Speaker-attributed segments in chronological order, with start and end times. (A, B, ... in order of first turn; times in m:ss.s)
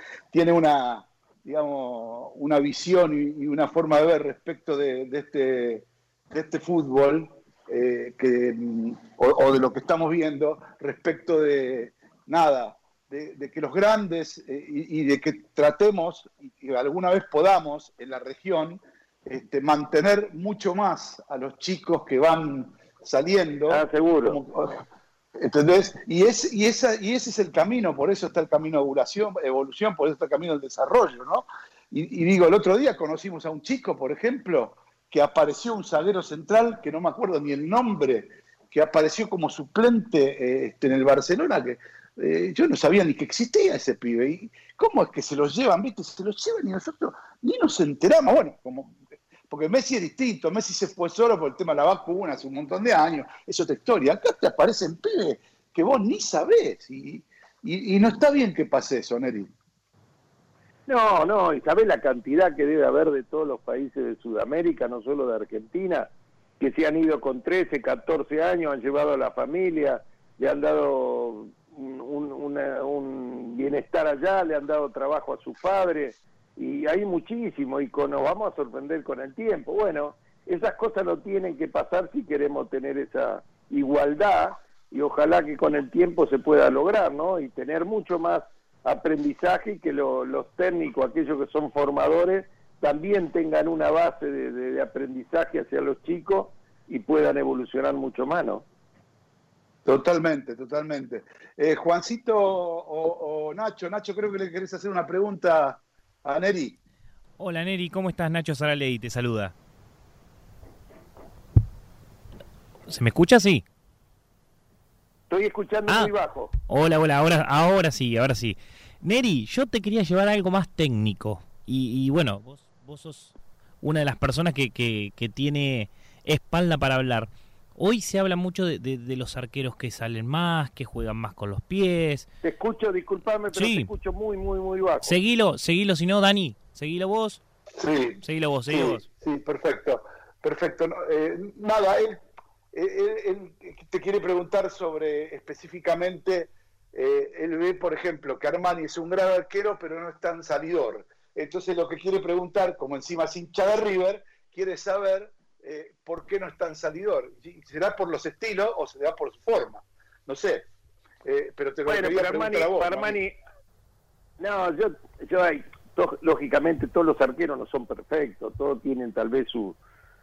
0:00.3-0:24.8 A
0:23.7-0:24.4 B
0:25.4-0:49.0 A
0:49.5-0:59.5 A
1:00.9-1:38.6 B
1:39.8-1:46.8 A
1:47.4-1:49.5 C
1:52.9-1:53.6 C
1:55.3-1:56.5 B
1:55.9-1:56.1 C
1:56.7-2:12.3 C
2:12.4-2:15.2 B
2:13.5-2:13.9 C
2:15.0-2:17.4 C
2:17.8-2:22.2 A
2:18.2-2:19.1 C
2:22.7-2:40.7 A
2:41.2-2:43.2 A
2:41.8-2:43.3 B
2:44.4-2:49.8 B